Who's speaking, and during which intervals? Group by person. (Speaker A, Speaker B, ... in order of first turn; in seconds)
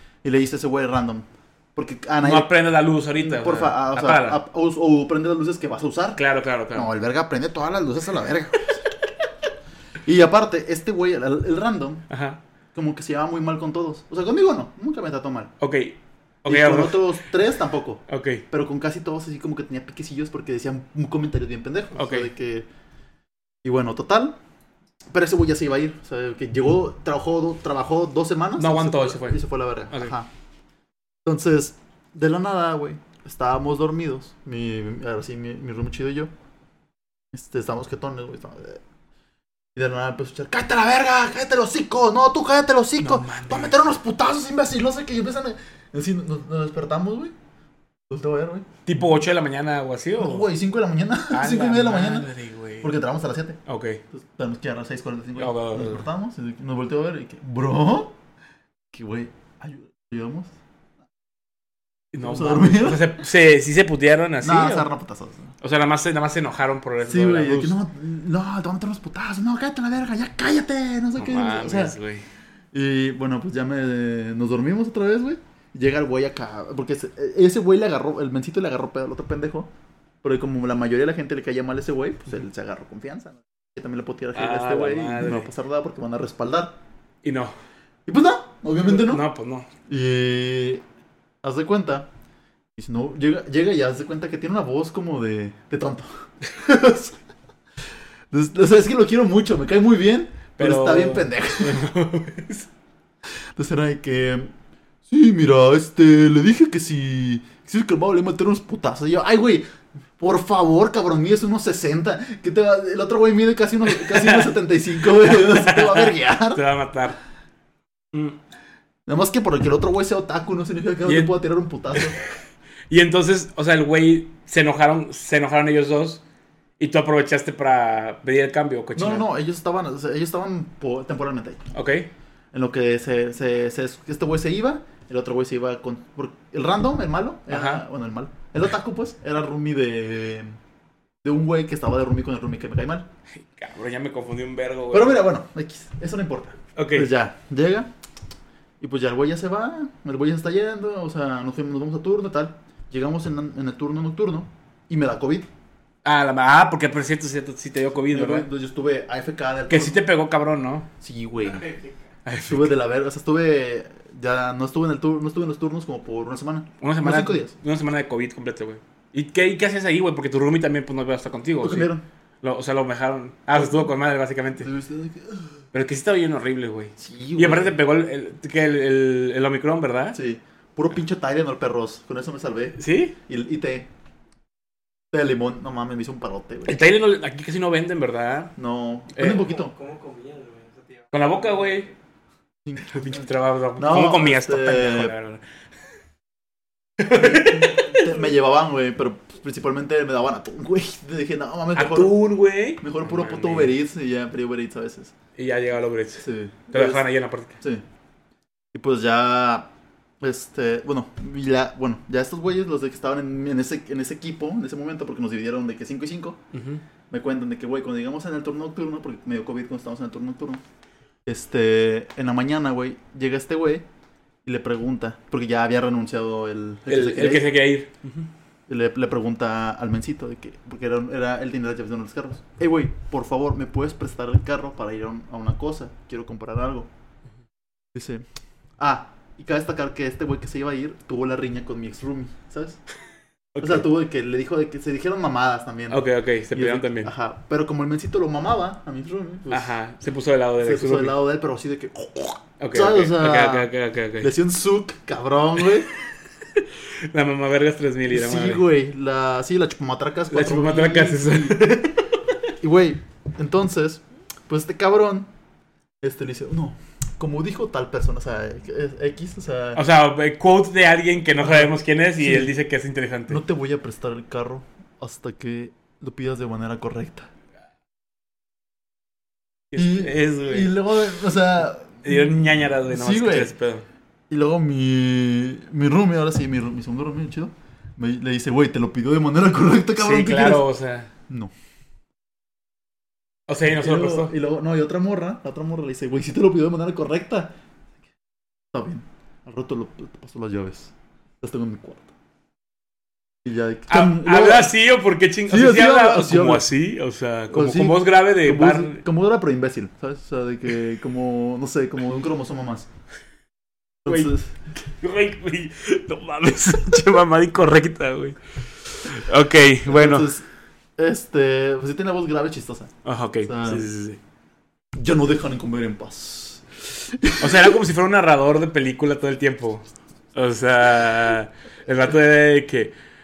Speaker A: 0.2-2.5, 3.1-6.2, 6.7-8.9, 10.0-12.1, 12.7-15.5, 16.5-22.7, 23.6-24.4, 25.1-30.3, 31.2-36.3, 37.3-38.8, 39.7-47.3, 48.1-48.7, 50.2-52.3, 52.8-53.6, 54.1-58.1, 58.9-60.5, 62.1-63.2, 64.4-65.5, 67.0-72.0, 72.7-79.7, 80.2-86.8, 88.0-89.2, 89.9-90.8, 91.4-92.1, 92.8-97.2, 98.3-101.8, 103.5-104.5, 105.0-109.7, 110.2-116.6, 119.1-122.2, 128.9-131.6, 132.5-140.6, 141.2-143.1, 144.9-147.9, 148.8-155.5, 158.1-160.0, 161.0-161.7, 162.5-167.5, 171.6-172.0, 174.6-175.6, 177.0-177.8, 180.1-183.9, 185.1-186.8, 188.6-189.7, 192.6-195.1, 197.1-202.2, 202.8-205.1, 206.2-207.1, 208.7-209.7, 210.2-216.4, 217.1-220.6, 221.2-223.8, 224.4-227.5, 228.7-236.9, 237.9-238.2, 238.8-242.8, 243.6-249.7, 250.6-255.9, 258.1-261.7, 262.6-265.3, 266.0-269.8, 271.4-272.5, 273.3-277.3, 279.8-283.5, 284.3-290.7, 293.7-297.6, 298.7-302.1, 303.4-304.7, 305.5-306.7, 307.5-312.9, 314.0-314.5, 319.9-323.9, 325.0-327.8
Speaker B: 2.2-4.4, 6.2-6.9, 12.1-12.4, 15.6-17.0, 18.1-18.4, 21.9-22.3, 28.6-30.1, 43.0-43.8, 48.9-50.5, 51.3-52.9, 53.6-54.0, 55.4-56.0, 62.1-64.9, 65.6-67.8, 71.2-72.2, 84.3-85.5, 87.2-87.5, 88.8-89.7, 100.6-102.7, 113.9-114.5, 115.2-117.2, 121.0-121.3, 122.9-126.2, 126.8-129.2, 131.7-132.1, 137.5-137.8, 143.4-145.2, 146.8-147.1, 156.0-158.4, 159.7-160.9, 162.2-162.7, 166.8-171.9, 172.4-174.7, 175.7-180.2, 182.8-183.1, 186.7-188.5, 189.1-189.5, 191.1-191.9, 192.9-195.4, 197.0-198.0, 201.7-203.7, 205.3-207.6, 216.5-216.8, 226.9-228.2, 243.5-243.8, 245.9-247.1, 249.5-251.2, 252.6-254.3, 256.5-258.6, 260.3-262.2, 269.8-273.4, 279.7-280.7, 282.0-283.9, 290.0-291.1, 293.5-294.3, 303.9-309.0, 314.1-320.3, 323.0-324.2, 327.4-332.9
Speaker C: 161.4-161.9, 189.4-191.9